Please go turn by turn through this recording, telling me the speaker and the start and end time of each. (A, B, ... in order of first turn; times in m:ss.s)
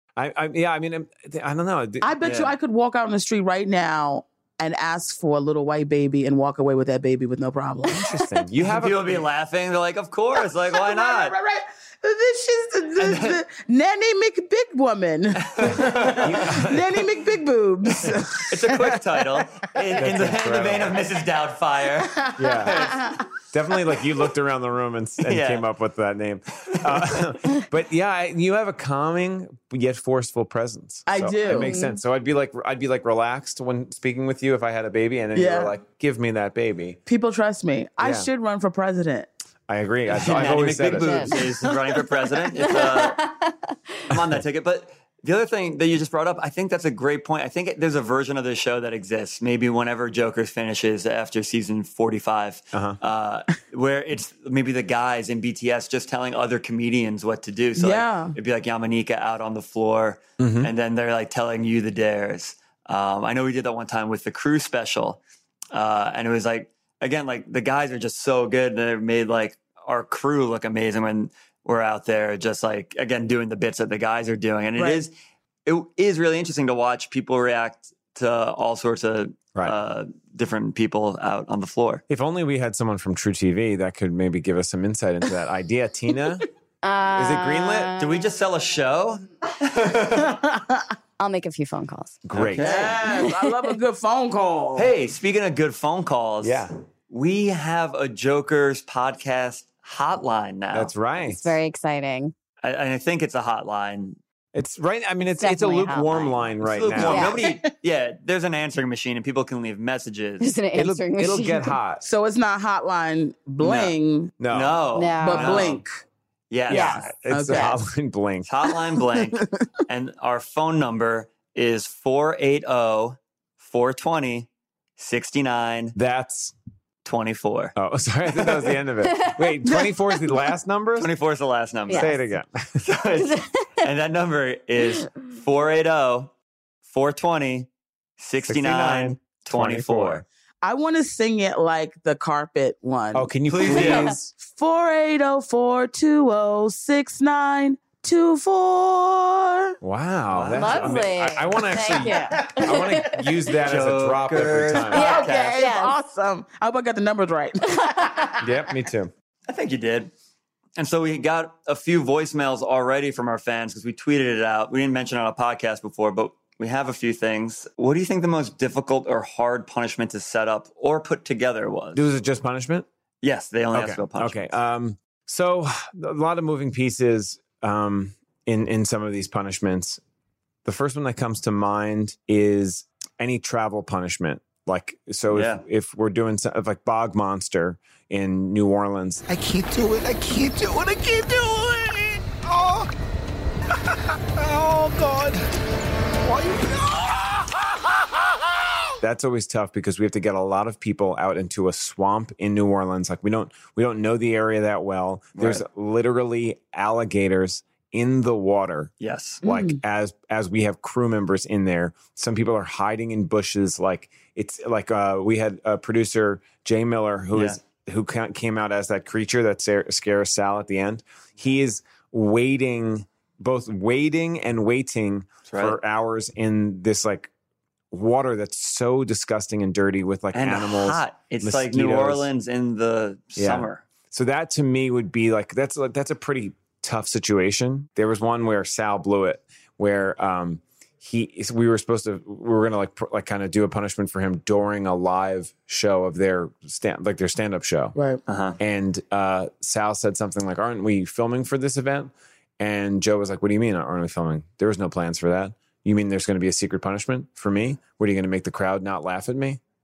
0:00.2-0:02.1 A
0:02.0-0:08.0 B
0:02.2-0:02.5 C
0:07.9-0:09.2 A
0:08.6-0:11.3 C
0:10.7-0:19.4 B
0:13.0-0:13.4 C
0:15.4-0:16.3 C
0:16.1-0:17.0 A
0:18.5-0:22.2 C
0:20.0-0:21.0 A
0:22.1-0:23.2 B
0:22.4-0:22.9 A
0:22.7-0:23.0 C
0:23.5-0:37.0 A
0:25.2-0:25.7 C
0:26.7-0:27.2 C
0:31.1-0:31.7 B
0:31.6-0:32.0 D
0:35.3-0:35.8 B
0:37.1-0:39.3 B
0:38.0-0:38.3 A
0:39.7-0:41.5 A
0:40.1-0:43.2 C
0:40.9-0:41.7 D
0:42.3-0:43.8 D
0:44.1-1:05.2 C
0:52.7-0:53.0 A
0:57.8-0:58.3 B
1:00.4-1:00.7 A
1:05.7-1:15.1 C
1:14.8-1:15.0 B
1:15.6-1:22.0 C
1:22.1-1:26.4 A
1:26.8-1:28.2 D
1:27.1-1:27.9 A
1:28.0-1:30.3 C
1:30.1-1:30.9 B
1:31.2-1:32.2 D
1:32.2-1:32.7 A
1:32.4-1:33.0 C
1:32.6-1:34.9 B
1:33.0-1:33.7 D
1:34.8-1:40.9 C
1:36.4-1:36.7 A
1:40.7-1:41.6 A
1:41.2-1:42.3 D
1:42.6-1:44.2 C
1:44.5-1:47.3 A
1:45.4-1:46.3 D
1:46.6-1:50.5 C
1:46.9-1:47.4 D
1:47.3-1:47.7 B
1:50.4-1:51.7 D
1:50.7-1:52.0 A
1:52.0-1:54.3 B
1:53.6-1:53.9 C
1:54.4-1:54.8 A
1:54.5-1:55.8 C
1:54.9-1:55.6 D
1:55.2-1:55.9 B
1:56.5-1:57.1 C
1:56.7-1:58.5 A
1:56.7-1:57.0 D
1:57.3-1:57.8 B
1:58.4-2:05.9 C
1:59.3-1:59.7 B
2:05.9-2:06.5 A
2:07.0-2:07.7 C
2:07.8-2:11.1 A
2:08.4-2:08.7 C
2:09.1-2:09.6 D
2:11.0-2:12.2 C
2:11.9-2:12.2 D
2:11.9-2:12.8 A
2:12.8-2:16.3 C
2:13.2-2:13.5 D
2:16.8-2:17.7 C
2:18.2-2:20.2 C
2:18.4-2:20.2 A
2:20.6-2:29.8 B
2:23.1-2:24.3 A
2:23.5-2:24.2 C
2:23.7-2:24.1 D
2:29.8-2:35.0 A
2:30.3-2:31.1 C
2:30.5-2:33.2 D
2:32.1-2:32.8 B
2:33.6-2:35.6 C
2:34.9-2:38.4 B
2:34.9-2:36.0 D
2:37.9-2:38.1 D
2:38.4-2:39.1 A
2:39.5-2:40.1 C
2:40.8-2:52.1 C
2:51.9-2:52.9 A
2:53.2-2:54.5 C
2:53.7-3:00.0 A
3:00.6-3:09.2 A
3:05.3-3:05.6 C
3:09.3-3:12.9 E
3:14.4-3:15.4 E
3:16.2-3:18.6 E
3:19.0-3:47.3 A
3:25.3-3:25.6 C
3:29.0-3:29.4 C
3:29.4-3:29.8 B
3:37.3-3:37.6 C
3:45.5-3:45.8 C
3:47.9-3:52.3 A
3:50.3-3:53.8 C
3:53.4-4:07.9 A
4:07.9-4:08.2 B
4:08.3-4:08.6 C
4:08.6-4:19.6 A